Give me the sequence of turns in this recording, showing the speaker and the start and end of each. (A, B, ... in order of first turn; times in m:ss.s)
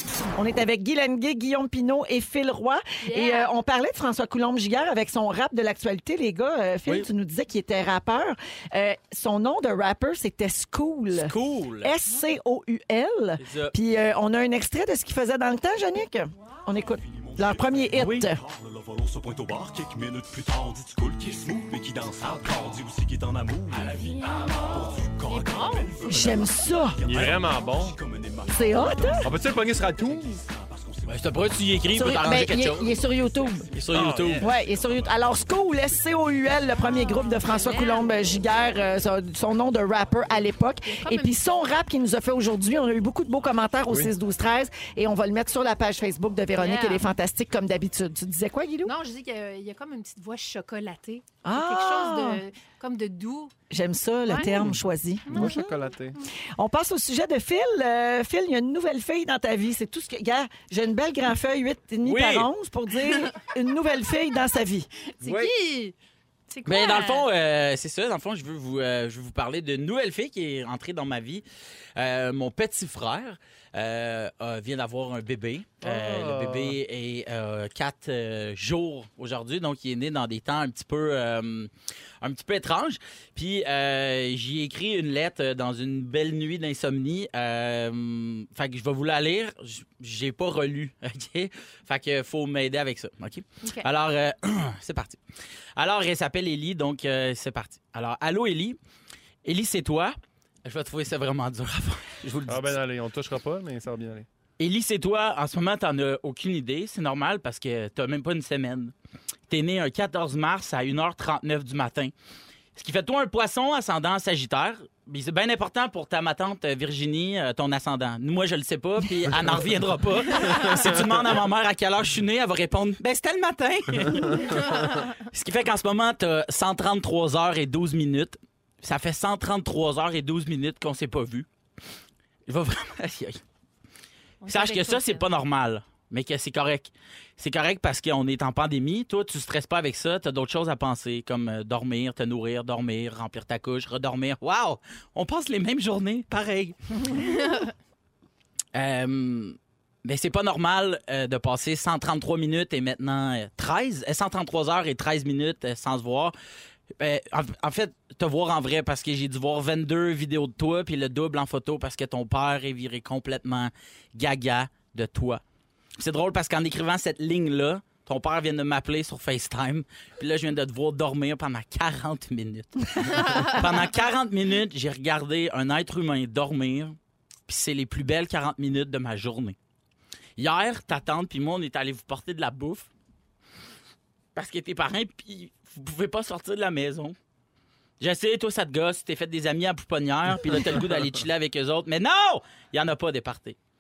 0:00.4-0:18.4 A
0:03.0-0:03.5 B
0:11.1-0:11.9 C
0:13.4-0:13.8 C
0:16.4-0:17.0 B
0:17.0-0:31.7 D
0:23.8-0:24.6 A
0:25.3-0:25.9 B
0:26.0-0:27.2 A
0:27.0-0:28.0 E
0:28.5-0:29.3 A
0:29.2-0:30.4 E
0:31.1-0:32.9 C
0:31.9-0:33.7 A
0:32.5-0:35.2 D
0:33.7-0:34.5 C
0:33.9-0:34.5 E
0:34.4-0:48.9 A
0:36.9-0:38.2 B
0:40.9-0:41.3 B
0:46.6-0:47.0 B
0:48.8-0:53.5 B
0:51.4-0:52.4 A
0:53.7-0:55.7 A
0:54.3-0:54.5 B
0:54.5-0:56.2 E
0:55.3-0:55.7 B
0:56.6-1:04.9 A
1:02.0-1:02.5 C
1:05.2-1:06.0 B
1:05.2-1:05.5 C
1:06.5-1:07.3 B
1:06.6-1:11.4 C
1:12.0-1:21.7 C
1:15.8-1:16.8 E
1:22.2-1:35.2 C
1:35.8-1:38.8 C
1:39.4-1:42.8 C
1:42.5-1:44.3 E
1:44.6-1:48.9 C
1:49.5-1:52.1 C
1:52.8-2:11.5 C
2:04.4-2:05.2 B
2:12.5-2:13.4 C
2:14.4-2:15.3 B
2:14.5-2:27.3 C
2:28.8-2:36.3 C
2:37.0-2:45.4 C
2:46.0-2:59.6 C
2:53.2-2:53.6 B
3:00.4-3:02.9 C
3:04.4-3:07.2 C
3:08.0-3:13.6 C